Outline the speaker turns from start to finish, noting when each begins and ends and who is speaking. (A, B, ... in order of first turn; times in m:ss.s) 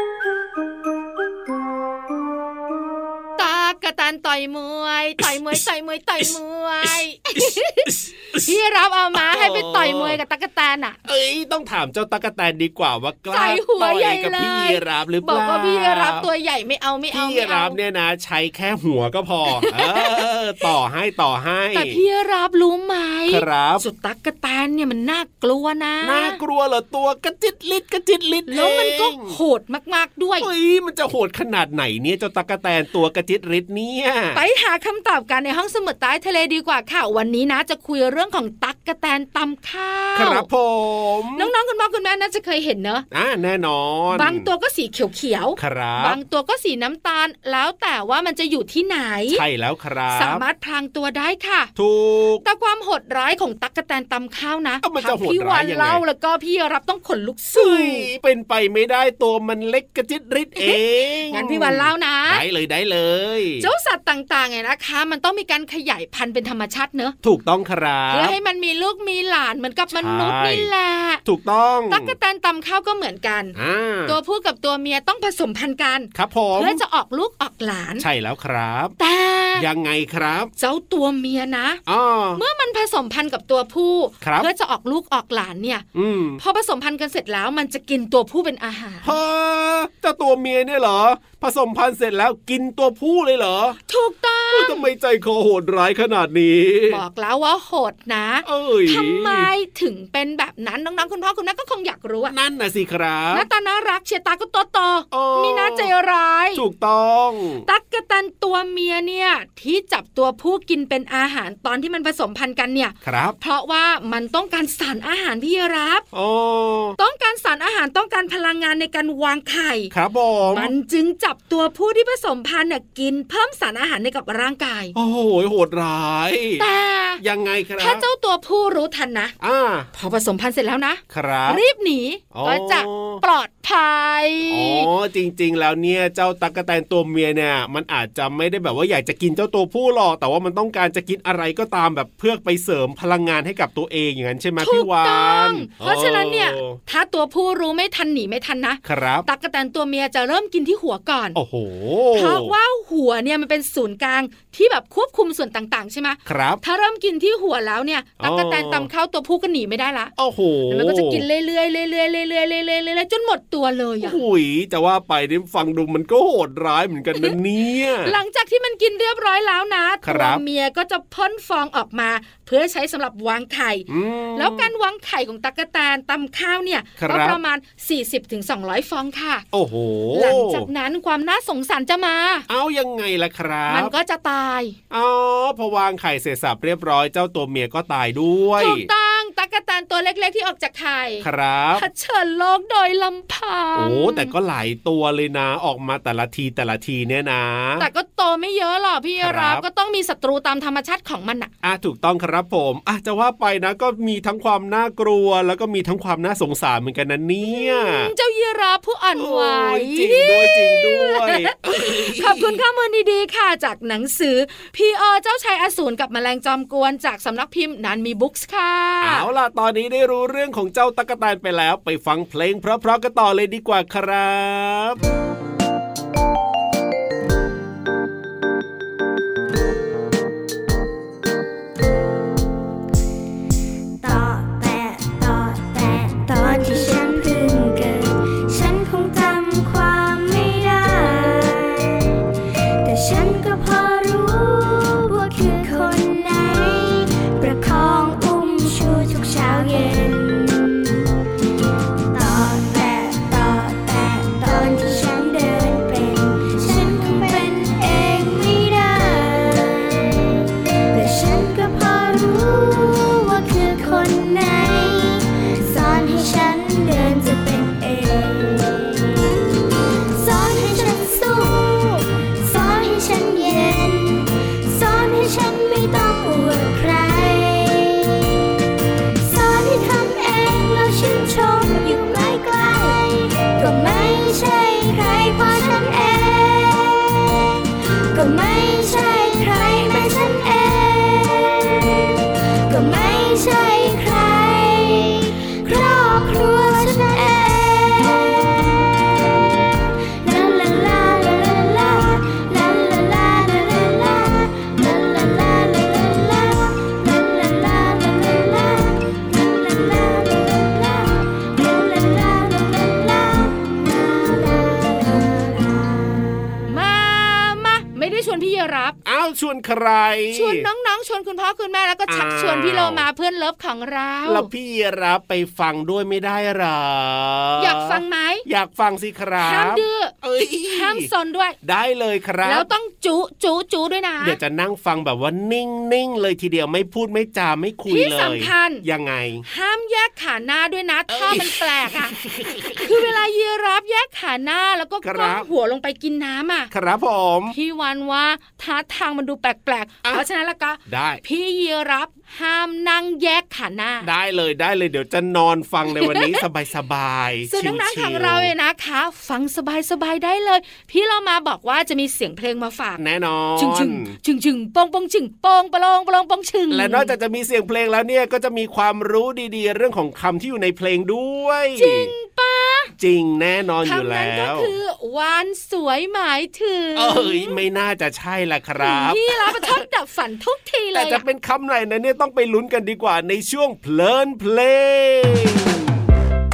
0:03.4-0:07.9 A
0:07.3-0:08.5 B
0:08.4-0:11.0 A
0:09.1-0:10.2 B
0:11.0-0:16.3 B
0:13.3-0:17.8 A
0:17.1-0:22.0 B
0:19.6-0:20.2 A
0:21.7-0:26.4 A
0:23.3-0:23.8 B
0:26.0-0:29.4 B
0:28.5-0:30.5 A
0:30.4-0:34.4 B
0:34.3-0:40.5 A
0:40.1-0:41.5 B
0:41.4-0:43.0 A
0:43.1-0:44.5 B
0:44.1-0:49.4 A
0:45.6-0:46.2 B
0:49.3-0:50.4 B
0:50.1-0:51.7 A
0:51.8-0:52.4 B
0:52.4-0:58.1 A
0:54.8-0:56.0 B
0:57.5-1:03.7 B
1:01.3-1:02.4 A
1:03.6-1:07.1 A
1:07.2-1:08.3 B
1:08.1-1:11.2 A
1:09.9-1:10.7 B
1:11.2-1:12.1 B
1:11.9-1:13.5 A
1:13.5-1:14.2 B
1:14.0-1:18.0 A
1:16.1-1:16.8 B
1:18.0-1:18.9 B
1:19.0-1:19.6 A
1:19.6-1:20.5 B
1:20.6-1:21.8 A
1:21.9-1:22.4 B
1:22.3-1:25.8 A
1:24.2-1:24.5 B
1:25.9-1:26.4 B
1:26.4-1:29.1 A
1:29.0-1:33.8 B
1:33.9-1:34.9 A
1:34.5-1:37.0 B
1:36.9-1:42.3 A
1:38.4-1:39.5 B
1:42.3-1:43.4 B
1:43.3-1:46.6 A
1:45.1-1:45.9 B
1:46.5-1:47.6 B
1:47.6-1:56.0 A
1:53.0-1:53.4 B
1:56.1-1:57.0 B
1:57.0-1:59.9 A
1:59.9-2:00.7 B
2:00.5-2:04.9 A
2:04.9-2:06.7 B
2:06.6-2:07.2 A
2:07.2-2:08.0 B
2:07.8-2:09.3 A
2:09.4-2:09.9 B
2:09.9-2:14.9 A
2:11.1-2:11.6 B
2:12.3-2:13.2 B
2:14.5-2:26.8 B
2:24.6-2:31.4 A
2:28.8-2:29.2 B
2:31.3-2:32.5 B
2:32.1-2:40.1 A
2:36.2-2:36.6 B
2:38.2-2:38.9 B
2:40.2-2:41.2 B
2:40.7-2:44.2 A
2:44.0-2:48.1 B
2:48.0-2:59.4 A
2:50.0-2:50.4 B
2:53.9-2:54.7 B
2:57.0-2:57.4 B
2:59.5-3:00.7 B
3:00.1-3:02.4 A
3:02.5-3:03.9 B
3:03.7-3:04.8 A
3:04.9-3:08.9 B
3:08.6-3:14.3 A
3:11.2-3:11.8 B
3:13.7-3:17.9 B
3:17.8-3:21.5 A
3:19.2-3:19.6 B
3:21.6-3:28.1 B
3:27.4-3:39.2 A
3:29.1-3:32.6 B
3:39.0-3:45.0 B
3:54.0-4:02.2 C
4:02.8-4:11.0 C
4:12.1-4:29.4 C
4:30.1-4:38.4 C
4:39.2-5:16.5 C
5:16.7-5:19.0 A
5:19.0-5:20.6 B
5:20.3-5:24.5 A
5:22.1-5:23.0 B
5:24.2-5:31.1 B
5:27.6-5:28.4 A
5:29.4-5:30.1 A
5:30.7-5:31.6 A
5:31.6-5:32.7 B
5:32.4-5:34.4 A
5:34.2-5:39.4 B
5:37.9-5:38.8 A
5:39.4-5:42.1 A
5:41.1-5:43.1 B
5:42.8-5:46.7 A
5:45.0-5:45.5 B
5:46.7-5:47.5 B
5:47.5-5:54.1 A
5:50.8-5:51.2 B
5:54.0-5:58.5 B
5:56.0-5:56.3 A
5:57.5-6:03.0 A
6:03.0-6:04.1 B
6:03.6-6:07.1 A
6:06.7-6:12.1 B
6:11.8-6:12.9 A
6:13.0-6:14.7 B
6:13.8-6:17.6 A
6:17.0-6:19.8 B
6:18.8-6:21.2 A
6:20.9-6:26.0 B